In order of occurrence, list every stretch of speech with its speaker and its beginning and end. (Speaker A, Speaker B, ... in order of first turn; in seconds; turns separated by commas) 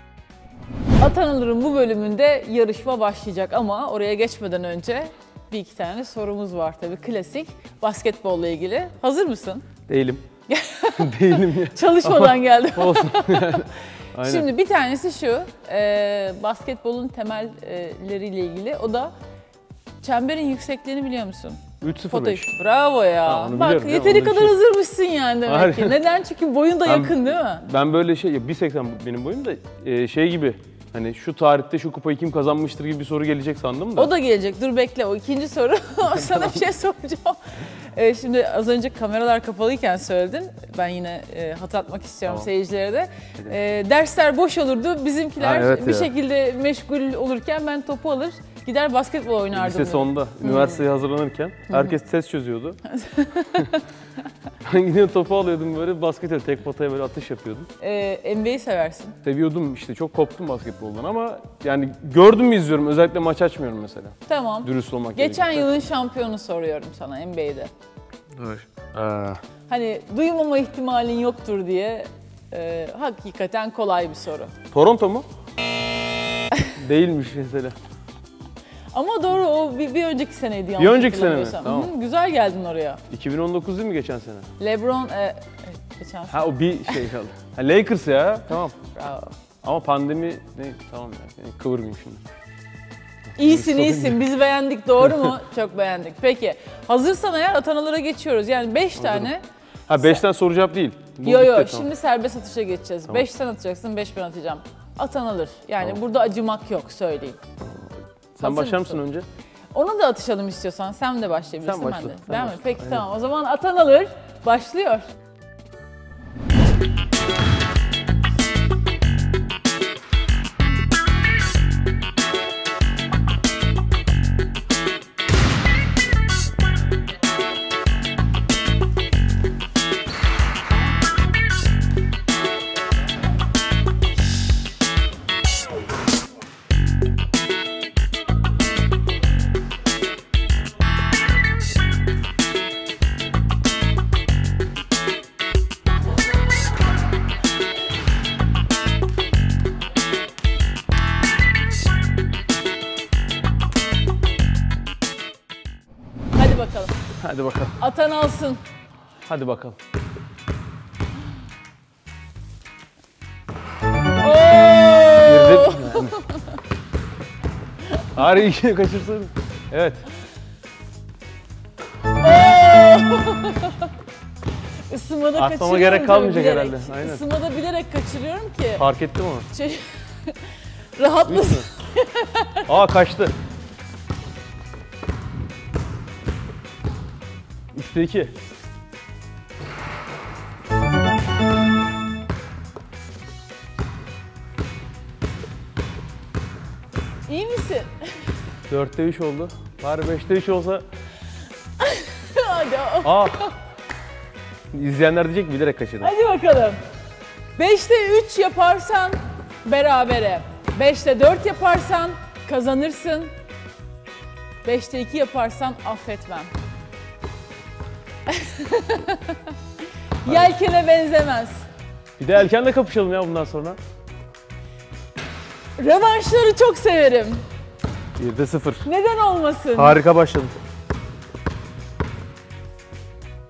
Speaker A: 1.0-9.7, Speaker B: 9.9-10.2, Speaker A: 10.5-13.7, Speaker B: 10.9-14.5, Speaker A: 14.2-19.1, Speaker A: 20.0-27.6, Speaker B: 21.8-22.5, Speaker B: 23.2-24.6, Speaker B: 25.4-26.0, Speaker B: 26.8-34.1, Speaker A: 34.0-50.8, Speaker B: 36.3-36.6, Speaker B: 45.4-46.1, Speaker B: 49.5-52.8, Speaker A: 52.9-53.8, Speaker B: 54.6-57.7, Speaker A: 57.8-59.2, Speaker B: 59.2-65.8, Speaker A: 64.3-67.7, Speaker B: 68.3-69.4, Speaker A: 69.7-74.5, Speaker B: 74.7-75.2, Speaker B: 76.7-77.8, Speaker A: 78.9-83.0, Speaker B: 80.8-81.9, Speaker B: 83.1-84.5, Speaker A: 84.6-87.1, Speaker B: 86.3-88.8, Speaker A: 88.8-89.3, Speaker B: 89.6-92.2, Speaker B: 93.3-94.2, Speaker A: 93.3-99.4, Speaker B: 95.0-95.3, Speaker B: 99.0-99.3, Speaker B: 99.9-101.9, Speaker A: 100.0-100.2, Speaker A: 101.2-107.4, Speaker B: 107.6-109.3, Speaker A: 108.4-109.0, Speaker A: 109.7-115.1, Speaker B: 111.6-113.0, Speaker A: 156.3-157.0, Speaker B: 157.2-157.8, Speaker A: 157.8-158.6, Speaker B: 159.2-159.8, Speaker A: 164.2-166.4, Speaker B: 165.2-166.2, Speaker B: 168.1-170.0, Speaker A: 172.2-173.9, Speaker A: 174.9-178.8, Speaker B: 175.3-177.2, Speaker B: 178.8-179.5, Speaker A: 179.5-182.7, Speaker B: 181.2-181.7, Speaker B: 182.7-183.3, Speaker B: 187.7-188.3, Speaker A: 197.3-198.3, Speaker B: 198.7-200.8, Speaker A: 201.8-203.5, Speaker B: 203.0-203.5, Speaker B: 204.7-206.1, Speaker A: 206.0-206.8, Speaker A: 207.6-213.3, Speaker A: 214.6-216.5, Speaker A: 218.3-219.6, Speaker A: 220.2-221.7, Speaker B: 220.2-220.5, Speaker B: 222.2-223.8, Speaker A: 225.8-227.4, Speaker B: 228.2-228.8, Speaker A: 228.8-230.0, Speaker B: 229.7-230.5